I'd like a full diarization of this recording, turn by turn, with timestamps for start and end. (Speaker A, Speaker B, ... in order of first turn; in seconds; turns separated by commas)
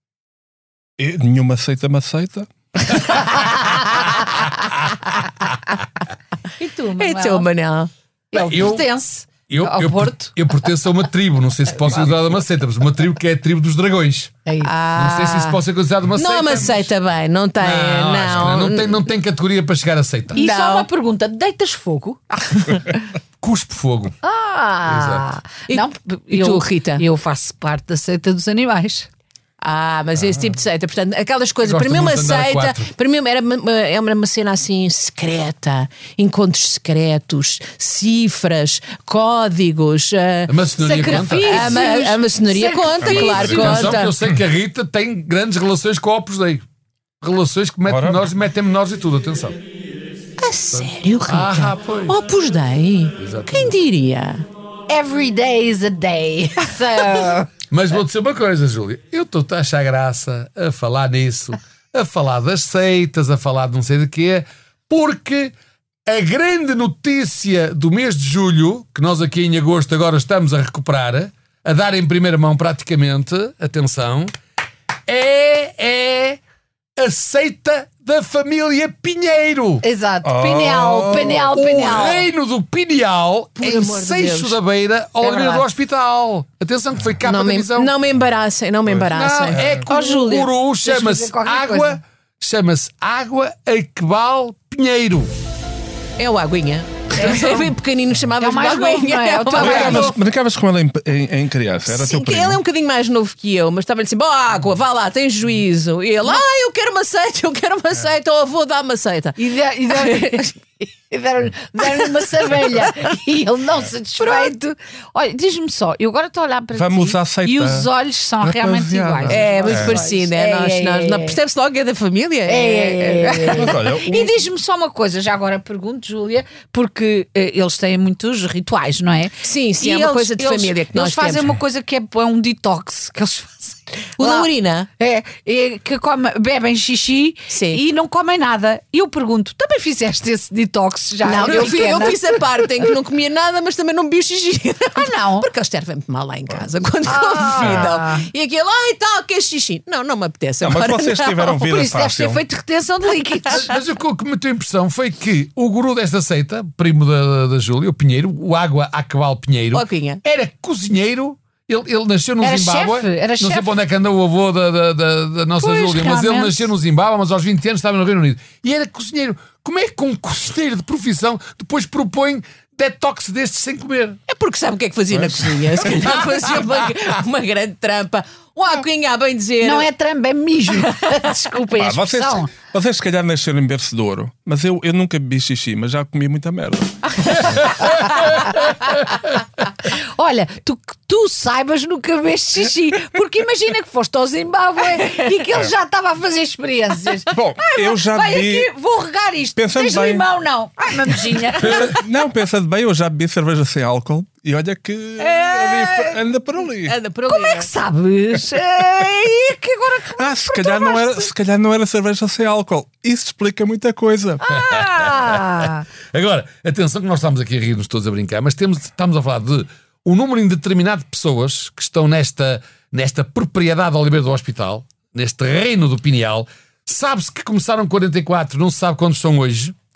Speaker A: 1.0-3.5, Speaker B: 6.6-7.5, Speaker C: 7.0-7.9, Speaker B: 8.3-10.3, Speaker D: 8.3-8.9, Speaker D: 9.5-14.3, Speaker B: 14.5-14.7, Speaker C: 14.6-15.6, Speaker D: 14.9-16.9, Speaker C: 16.2-19.0, Speaker D: 17.6-20.4, Speaker B: 20.3-23.0, Speaker C: 20.4-20.9, Speaker D: 23.4-24.2, Speaker B: 24.2-29.1, Speaker D: 24.8-25.3, Speaker C: 25.7-27.0, Speaker C: 29.6-44.1, Speaker D: 31.6-32.9, Speaker D: 40.5-41.8, Speaker B: 40.8-43.9, Speaker A: 43.0-44.0, Speaker D: 43.4-46.6, Speaker D: 47.2-49.6, Speaker A: 47.9-48.2, Speaker C: 50.4-54.5, Speaker D: 50.7-52.2, Speaker D: 53.2-53.8, Speaker B: 54.9-57.5, Speaker D: 57.7-65.5, Speaker D: 66.1-74.3, Speaker D: 75.1-76.4, Speaker D: 77.0-79.8, Speaker B: 79.8-82.2, Speaker A: 80.2-82.0, Speaker D: 81.9-87.9, Speaker C: 83.6-84.6, Speaker B: 85.2-85.7, Speaker C: 87.2-90.2, Speaker A: 88.9-89.8, Speaker D: 89.1-95.3, Speaker B: 89.9-92.0, Speaker C: 96.2-100.2, Speaker B: 97.2-97.7, Speaker B: 98.4-100.2, Speaker A: 99.6-102.6, Speaker C: 101.8-109.4, Speaker B: 109.4-121.4, Speaker C: 109.9-110.5, Speaker C: 111.9-112.7, Speaker C: 114.2-114.5, Speaker A: 116.8-117.9, Speaker A: 118.4-120.0, Speaker C: 119.3-123.8, Speaker B: 122.5-142.2, Speaker A: 123.5-124.3, Speaker C: 129.4-131.6, Speaker C: 134.2-134.9, Speaker C: 137.5-137.8, Speaker C: 141.2-151.5, Speaker B: 144.9-145.5, Speaker B: 147.1-148.3, Speaker A: 150.6-152.4, Speaker B: 151.5-153.7, Speaker D: 153.5-174.2, Speaker C: 159.7-160.2, Speaker B: 162.4-163.7, Speaker B: 165.6-166.7, Speaker C: 174.3-179.9, Speaker B: 179.6-182.5, Speaker C: 180.7-181.2, Speaker A: 181.8-187.8, Speaker B: 187.2-189.1, Speaker B: 189.8-202.0, Speaker A: 197.3-198.7, Speaker A: 199.6-200.2, Speaker A: 201.6-206.9, Speaker C: 205.2-206.2, Speaker C: 206.8-207.7, Speaker B: 207.3-211.3, Speaker A: 210.2-214.4, Speaker B: 214.4-215.9, Speaker D: 214.5-229.8